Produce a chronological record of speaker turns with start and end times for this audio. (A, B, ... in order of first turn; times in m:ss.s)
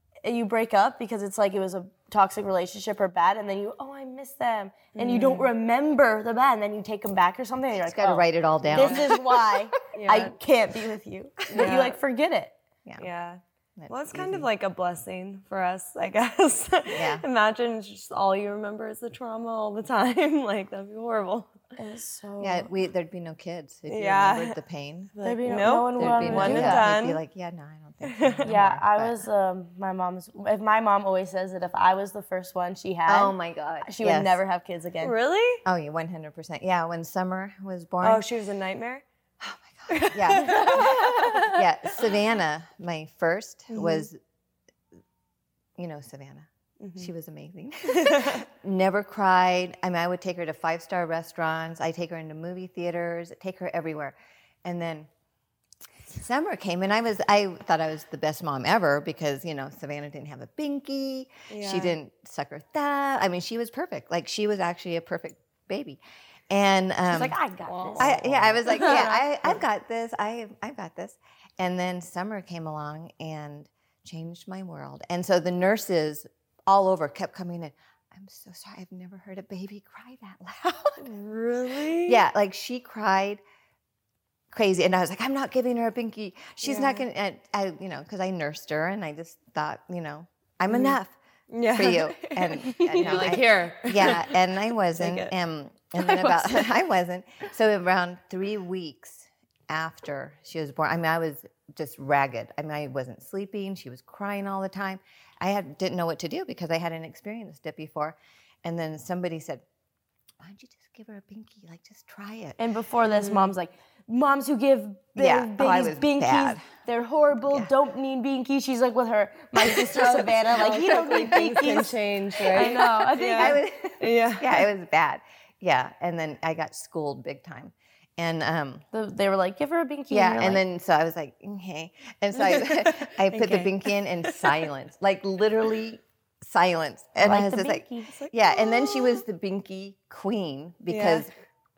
0:00.2-0:12.6 A
0:05.0-0:05.5 B
0:07.9-0:09.4 C
0:08.6-0:09.1 B
0:09.9-0:10.4 B
0:11.5-0:12.0 B
0:13.0-0:21.6 B
0:13.8-0:14.5 C
0:16.9-0:17.2 C
0:21.8-0:22.7 A
0:22.4-0:25.1 C
0:23.9-0:24.6 B
0:25.1-0:27.2 B
0:25.2-0:26.9 A
0:26.0-0:29.2 C
0:28.1-0:28.4 B
0:28.4-0:35.1 A
0:33.1-0:34.4 C
0:35.0-0:35.6 B
0:35.6-0:38.2 C
0:38.0-0:39.0 B
0:39.4-0:44.2 C
0:39.9-0:42.1 B
0:40.5-0:40.8 A
0:43.7-0:44.1 B
0:45.8-0:55.1 C
0:46.8-0:47.1 B
0:47.9-0:48.4 B
0:56.1-1:07.4 C
1:01.5-1:02.0 B
1:07.1-1:09.6 A
1:07.6-1:09.1 B
1:08.0-1:21.1 C
1:21.0-1:22.2 B
1:22.0-1:23.4 C
1:24.5-1:31.1 C
1:26.6-1:27.0 B
1:30.7-1:31.0 B
1:31.5-1:35.3 B
1:31.7-1:49.6 C
1:32.9-1:33.3 A
1:36.0-1:36.7 B
1:50.4-1:52.6 C
1:52.6-2:03.6 A
1:53.0-1:53.6 B
1:55.2-1:56.7 C
1:59.6-2:04.7 B
2:02.8-2:08.9 C
2:08.9-2:10.6 A
2:10.1-2:21.3 C
2:12.4-2:14.7 B
2:17.2-2:18.1 A
2:18.1-2:19.2 B
2:20.9-2:21.3 B